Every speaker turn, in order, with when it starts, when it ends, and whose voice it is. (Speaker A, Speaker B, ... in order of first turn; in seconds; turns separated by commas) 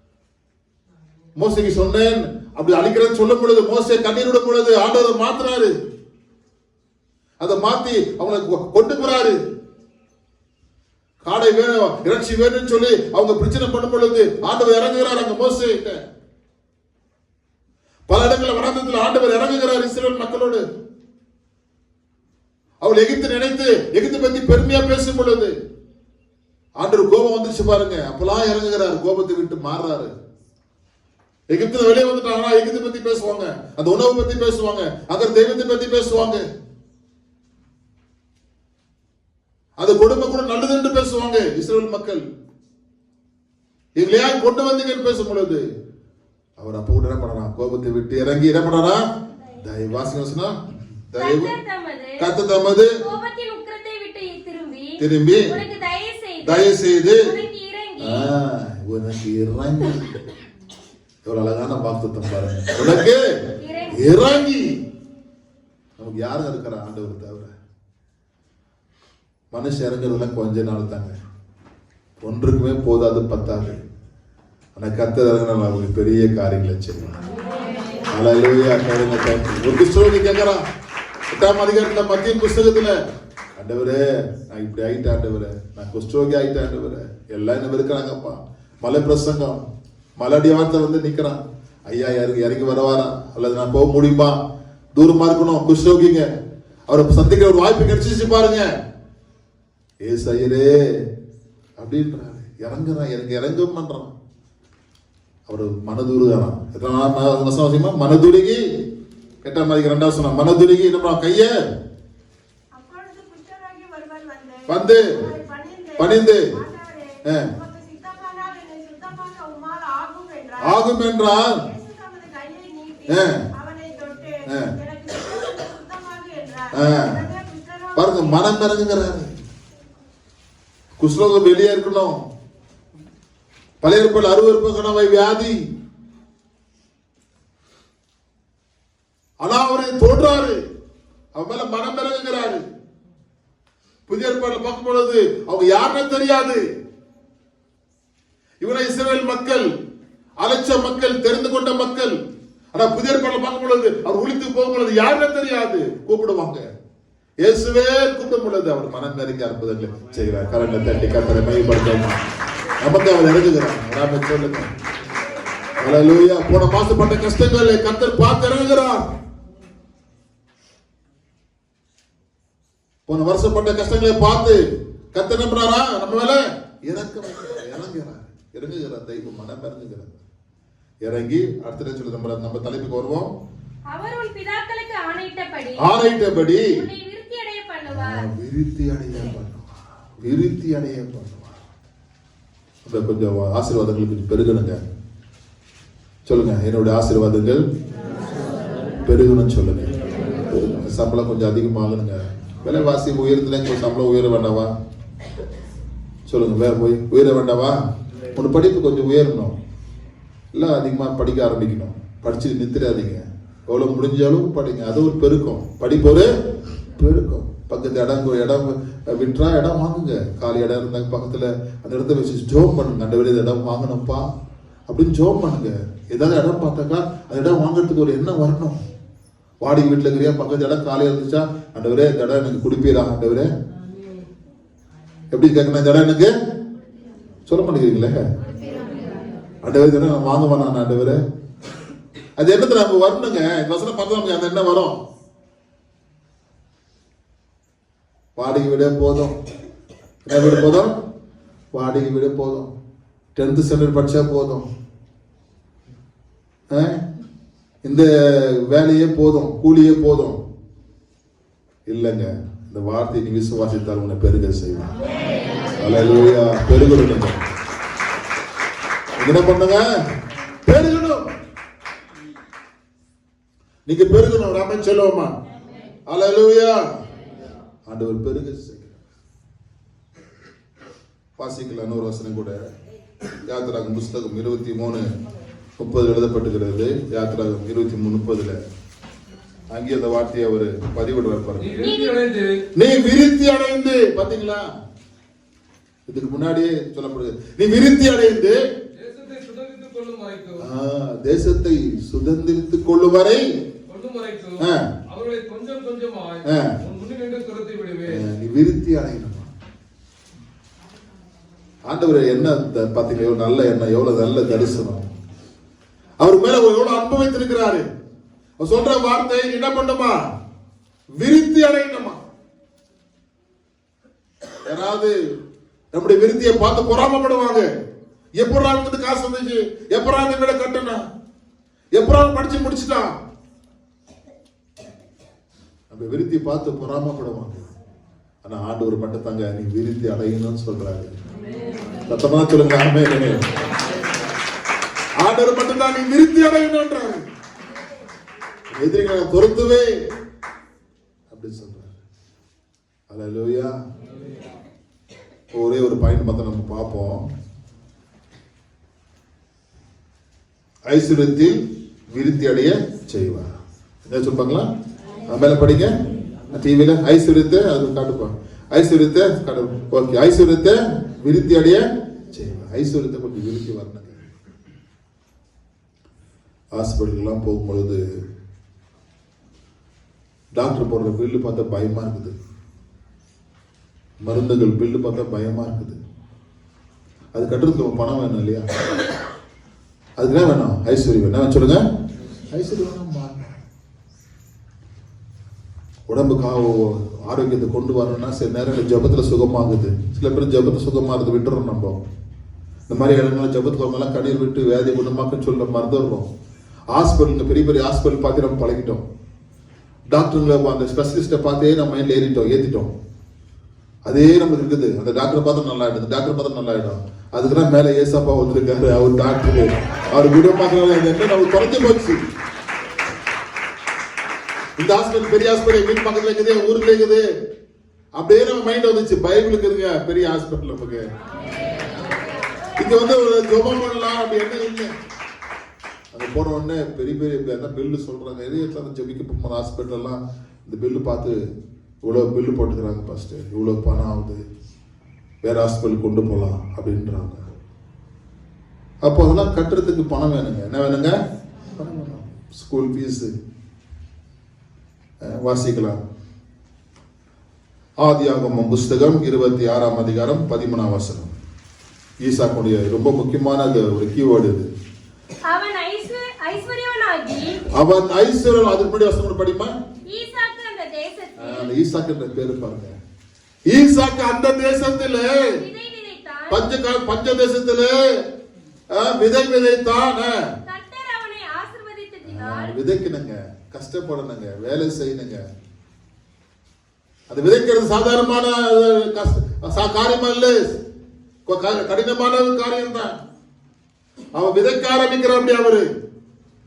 Speaker A: 1.4-5.7, Speaker A: 7.4-9.4, Speaker A: 11.2-16.0, Speaker A: 18.1-20.6, Speaker A: 22.8-25.5, Speaker A: 26.8-30.1, Speaker A: 31.5-36.4, Speaker A: 39.8-42.2, Speaker A: 44.0-45.6, Speaker A: 46.6-49.0, Speaker A: 49.5-51.5, Speaker B: 51.2-52.2, Speaker A: 52.2-53.0, Speaker B: 53.0-58.3, Speaker A: 55.0-55.5, Speaker A: 56.4-57.3, Speaker A: 58.0-60.2, Speaker A: 61.2-63.2, Speaker B: 63.6-64.0, Speaker A: 63.9-64.8, Speaker A: 66.0-67.5, Speaker A: 69.5-71.1, Speaker A: 72.2-73.8, Speaker A: 74.8-77.2, Speaker A: 78.1-80.6, Speaker A: 81.3-83.0, Speaker A: 83.6-89.6, Speaker A: 90.2-94.4, Speaker A: 94.9-96.3, Speaker A: 96.9-98.7, Speaker A: 100.0-101.1, Speaker A: 101.8-104.1, Speaker A: 105.5-108.6, Speaker A: 109.4-111.5, Speaker C: 112.7-128.6, Speaker A: 114.7-115.2, Speaker A: 116.0-116.5, Speaker A: 120.6-121.6, Speaker A: 123.1-123.5, Speaker A: 126.7-127.2, Speaker A: 128.0-129.3, Speaker A: 131.0-132.2, Speaker A: 133.8-135.6, Speaker A: 139.4-140.6, Speaker A: 141.3-142.6, Speaker A: 144.1-146.7, Speaker A: 148.6-149.7, Speaker A: 150.4-152.2, Speaker A: 152.7-156.7, Speaker A: 157.4-162.2, Speaker A: 162.8-164.7, Speaker A: 165.8-169.1, Speaker A: 173.1-174.6, Speaker A: 175.1-180.2, Speaker A: 181.0-183.3, Speaker B: 183.9-185.9, Speaker A: 185.8-186.7, Speaker B: 186.6-188.2, Speaker A: 187.9-189.7, Speaker A: 190.2-191.6, Speaker A: 192.8-194.9, Speaker A: 196.2-197.7, Speaker A: 199.0-199.9, Speaker A: 200.5-204.7, Speaker A: 206.3-207.8, Speaker A: 208.3-209.5, Speaker A: 210.5-216.3, Speaker A: 216.9-224.3, Speaker A: 224.9-228.8, Speaker A: 229.6-233.5, Speaker A: 235.3-236.3, Speaker A: 237.5-238.3, Speaker A: 239.6-241.2, Speaker A: 242.4-245.0, Speaker A: 248.4-249.3, Speaker A: 250.2-250.9, Speaker A: 251.7-252.7, Speaker A: 253.3-254.7, Speaker A: 256.7-257.0, Speaker A: 257.8-260.4, Speaker A: 261.9-264.9, Speaker A: 265.8-267.4, Speaker A: 269.2-269.9, Speaker A: 270.6-271.3, Speaker A: 273.9-275.3, Speaker A: 276.1-276.8, Speaker A: 277.9-279.0, Speaker A: 281.4-282.6, Speaker A: 283.4-285.1, Speaker A: 285.8-288.6, Speaker A: 289.7-291.9, Speaker D: 291.6-292.5, Speaker B: 291.8-292.1, Speaker A: 292.8-294.7, Speaker A: 296.1-298.6, Speaker D: 298.9-300.6, Speaker A: 300.6-303.4, Speaker D: 303.9-308.2, Speaker A: 304.6-304.9, Speaker A: 306.4-306.7, Speaker A: 308.1-309.5, Speaker A: 311.9-315.1, Speaker A: 316.2-317.9, Speaker A: 318.6-320.2, Speaker A: 321.2-322.2, Speaker A: 324.6-325.1, Speaker A: 325.9-327.7, Speaker A: 328.4-331.0, Speaker A: 331.9-333.1, Speaker A: 335.9-337.7, Speaker A: 338.4-341.2, Speaker A: 342.1-343.5, Speaker A: 345.2-347.2, Speaker A: 348.7-349.9, Speaker A: 351.3-352.0, Speaker A: 353.1-353.7, Speaker A: 355.5-357.3, Speaker A: 360.9-361.6, Speaker A: 362.1-363.5, Speaker A: 364.1-364.7, Speaker A: 365.3-365.9, Speaker A: 366.5-374.3, Speaker A: 376.7-378.0, Speaker A: 380.5-382.3, Speaker A: 384.2-386.0, Speaker A: 387.3-388.7, Speaker A: 390.2-391.8, Speaker A: 392.5-393.5, Speaker A: 396.1-402.0, Speaker A: 402.9-406.3, Speaker A: 406.9-409.0, Speaker A: 410.1-412.9, Speaker A: 414.1-422.2, Speaker A: 424.8-427.2, Speaker A: 428.1-431.1, Speaker A: 432.8-434.9, Speaker A: 436.1-441.4, Speaker A: 442.0-444.4, Speaker A: 445.4-447.5, Speaker A: 449.0-451.2, Speaker A: 451.8-453.3, Speaker A: 455.2-456.0, Speaker A: 458.0-461.3, Speaker A: 462.2-464.7, Speaker B: 465.5-467.6, Speaker A: 467.7-469.7, Speaker B: 470.1-471.7, Speaker A: 471.4-472.9, Speaker A: 473.7-475.5, Speaker B: 475.6-476.6, Speaker A: 476.5-478.2, Speaker A: 478.9-480.4, Speaker B: 480.6-482.7, Speaker A: 482.3-485.4, Speaker A: 487.3-490.8, Speaker A: 491.4-493.1, Speaker A: 494.3-495.9